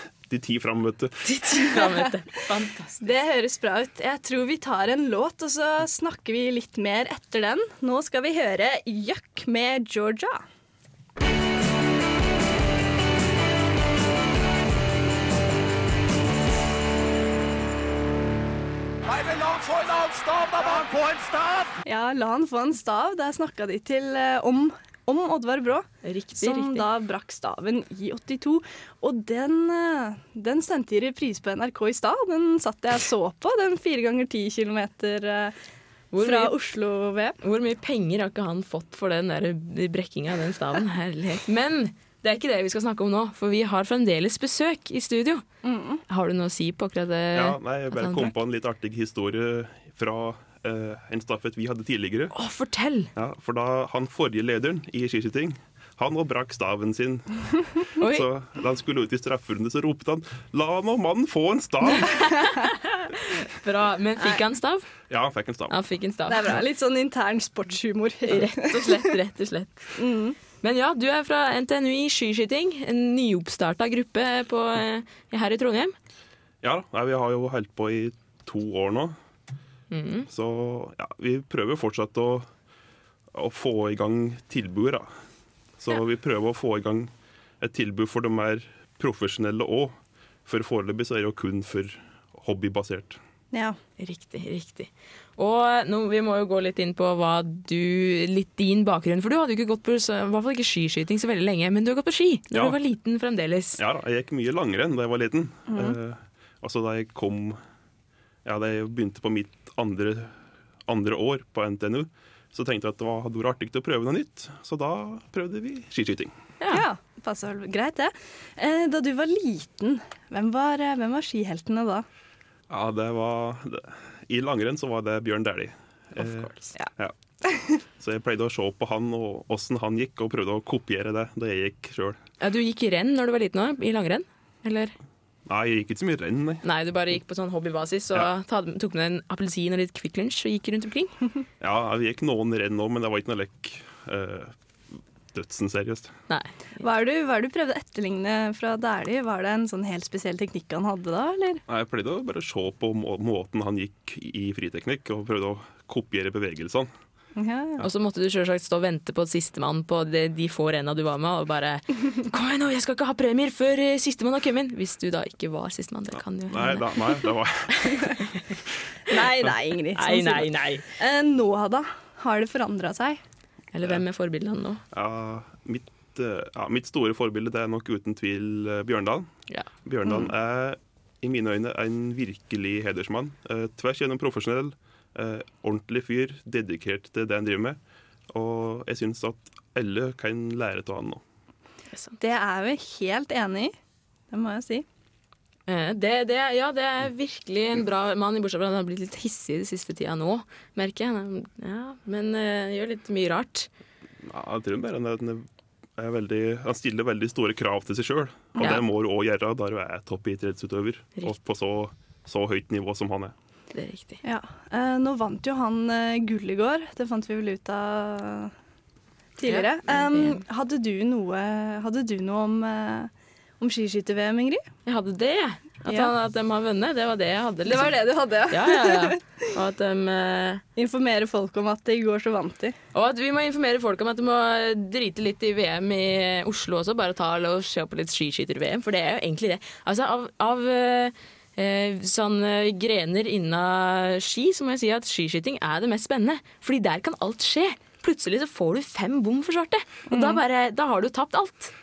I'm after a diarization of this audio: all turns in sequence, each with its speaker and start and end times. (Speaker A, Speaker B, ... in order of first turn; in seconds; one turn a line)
Speaker A: 0.2-1.7
Speaker B: 1.2-3.1
Speaker C: 3.0-10.4
Speaker D: 19.1-21.7
Speaker C: 21.8-25.9
Speaker B: 26.0-26.9
Speaker C: 26.4-35.5
Speaker B: 36.1-36.5
Speaker C: 36.2-37.4
Speaker B: 37.4-45.4
Speaker C: 45.6-46.0
Speaker B: 46.1-48.3
Speaker A: 47.3-52.3
Speaker B: 52.3-53.1
Speaker A: 53.1-62.2
Speaker B: 58.0-58.2
Speaker B: 61.9-64.9
Speaker A: 65.1-65.8
Speaker B: 65.7-66.6
Speaker C: 66.3-69.1
Speaker B: 68.2-69.9
Speaker C: 70.0-70.4
Speaker B: 70.6-75.9
Speaker A: 76.6-79.2
Speaker B: 79.9-80.3
Speaker A: 80.3-82.5
Speaker A: 83.3-85.1
Speaker A: 85.8-93.2
Speaker C: 93.5-93.8
Speaker B: 94.0-103.8
Speaker A: 102.5-102.8
Speaker A: 103.8-107.6
Speaker C: 105.7-106.0
Speaker A: 108.4-110.3
Speaker A: 110.9-116.3
Speaker B: 116.6-116.8
Speaker C: 116.7-122.0
Speaker A: 122.7-127.1
Speaker B: 126.2-126.7
Speaker C: 127.4-127.8
Speaker A: 128.0-132.2
Speaker B: 132.4-134.9
Speaker A: 135.5-136.6
Speaker B: 136.6-141.2
Speaker A: 141.6-144.5
Speaker A: 145.3-146.1
Speaker C: 146.8-151.6
Speaker A: 151.7-156.9
Speaker C: 157.3-157.8
Speaker B: 157.8-167.2
Speaker A: 166.5-168.3
Speaker B: 167.8-168.4
Speaker C: 169.1-173.2
Speaker B: 169.9-170.8
Speaker B: 173.7-174.8
Speaker A: 174.9-179.3
Speaker A: 179.8-187.8
Speaker C: 180.0-180.3
Speaker A: 188.3-191.2
Speaker B: 191.9-192.2
Speaker C: 192.2-193.7
Speaker C: 194.3-194.8
Speaker B: 195.7-203.7
Speaker A: 204.2-213.3
Speaker B: 213.7-214.2
Speaker C: 214.2-218.5
Speaker C: 219.4-224.7
Speaker B: 219.4-220.4
Speaker B: 224.8-230.6
Speaker C: 225.8-226.1
Speaker C: 227.7-229.4
Speaker C: 230.8-232.8
Speaker B: 232.9-251.7
Speaker C: 250.1-250.4